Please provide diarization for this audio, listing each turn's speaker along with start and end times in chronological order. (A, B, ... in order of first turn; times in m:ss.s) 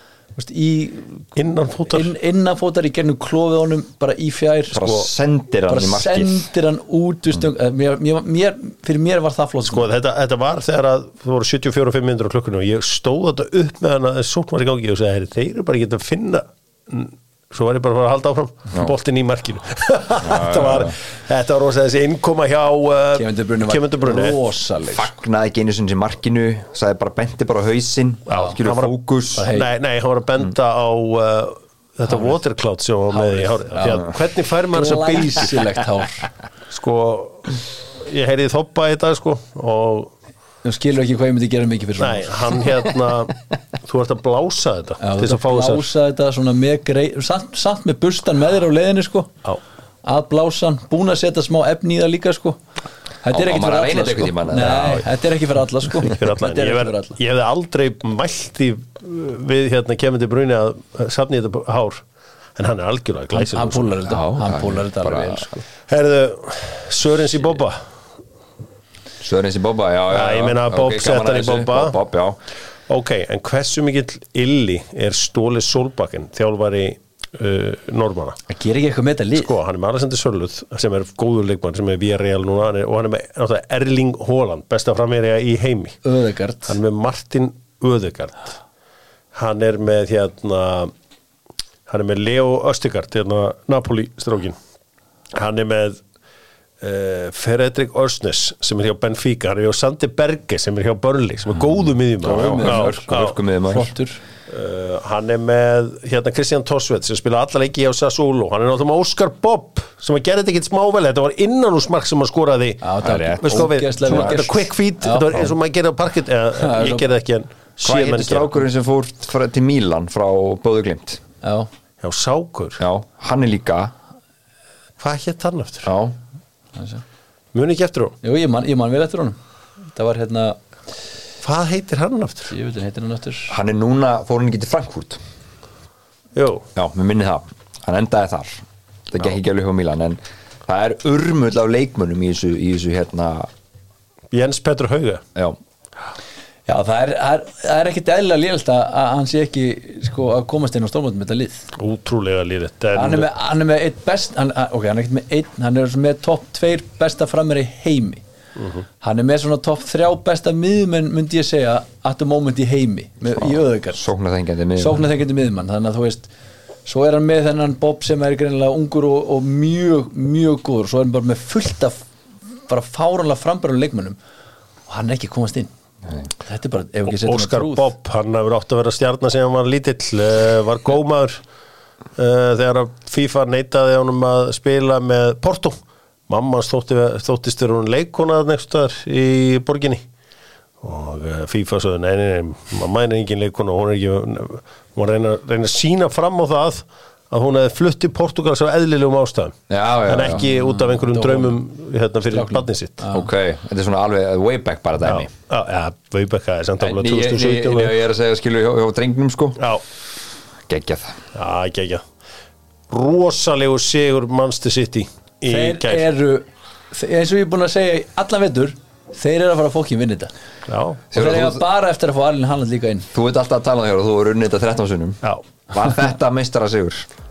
0:00.4-0:01.2 A
0:01.4-0:02.1 B
0:01.9-0:05.0 A
0:04.7-0:06.5 C
0:05.7-0:09.8 A
0:09.7-0:24.4 B
0:20.2-0:20.9 C
0:23.2-0:25.1 A
0:24.9-0:29.5 C
0:28.3-0:35.6 B
0:29.3-0:29.7 A
0:32.1-0:32.3 A
0:33.1-0:34.0 A
0:34.7-0:36.3 A
0:36.7-0:40.1 B
0:40.6-0:42.6 A
0:42.0-0:45.8 B
0:45.0-0:49.3 A
0:50.0-0:52.6 A
0:53.2-0:57.2 A
0:53.3-0:55.1 C
0:56.0-1:02.0 B
1:02.6-1:04.0 B
1:03.3-1:05.6 A
1:04.0-1:05.6 C
1:05.9-1:07.8 B
1:09.2-1:12.4 C
1:10.1-1:12.0 B
1:12.9-1:18.4 B
1:18.5-1:19.5 A
1:19.4-1:26.0 B
1:26.0-1:26.8 A
1:26.7-1:28.6 B
1:29.3-1:30.9 B
1:31.9-1:34.6 B
1:35.3-1:36.0 B
1:36.8-1:43.4 B
1:42.2-1:43.9 C
1:42.2-1:43.1 A
1:43.7-1:44.2 A
1:44.5-1:52.8 B
1:52.8-1:55.5 A
1:53.0-1:54.4 C
1:53.4-1:58.6 B
1:56.6-1:57.1 A
1:57.8-2:01.2 C
2:01.4-2:01.7 A
2:02.0-2:02.8 B
2:02.8-2:03.9 C
2:05.0-2:05.9 B
2:05.8-2:06.2 C
2:06.8-2:07.0 A
2:07.5-2:08.1 B
2:08.2-2:09.4 A
2:09.9-2:10.6 A
2:11.4-2:12.5 B
2:12.5-2:13.5 A
2:13.5-2:15.2 C
2:16.3-2:16.6 B
2:16.7-2:23.5 C
2:24.3-2:25.2 B
2:26.7-2:31.7 A
2:31.8-2:33.3 B
2:32.9-2:38.2 A
2:38.6-2:38.8 B
2:39.0-2:44.0 A
2:43.3-2:45.0 C
2:44.8-2:46.3 A
2:46.8-2:52.0 A
2:52.7-2:54.2 A
2:54.9-2:55.7 A
2:56.4-2:57.9 A
2:57.1-3:01.4 B
3:02.2-3:05.8 B
3:06.3-3:10.0 B
3:10.8-3:23.0 B
3:19.7-3:20.4 C
3:20.3-3:21.6 A
3:22.3-3:23.3 A
3:23.1-3:25.3 C
3:25.0-3:28.0 B
3:26.8-3:29.6 C
3:30.7-3:31.2 C
3:31.3-3:32.0 B
3:32.9-3:36.1 B
3:35.5-3:40.3 A
3:40.7-3:41.0 B
3:41.1-3:41.6 C
3:41.1-3:43.1 A
3:43.1-3:47.1 C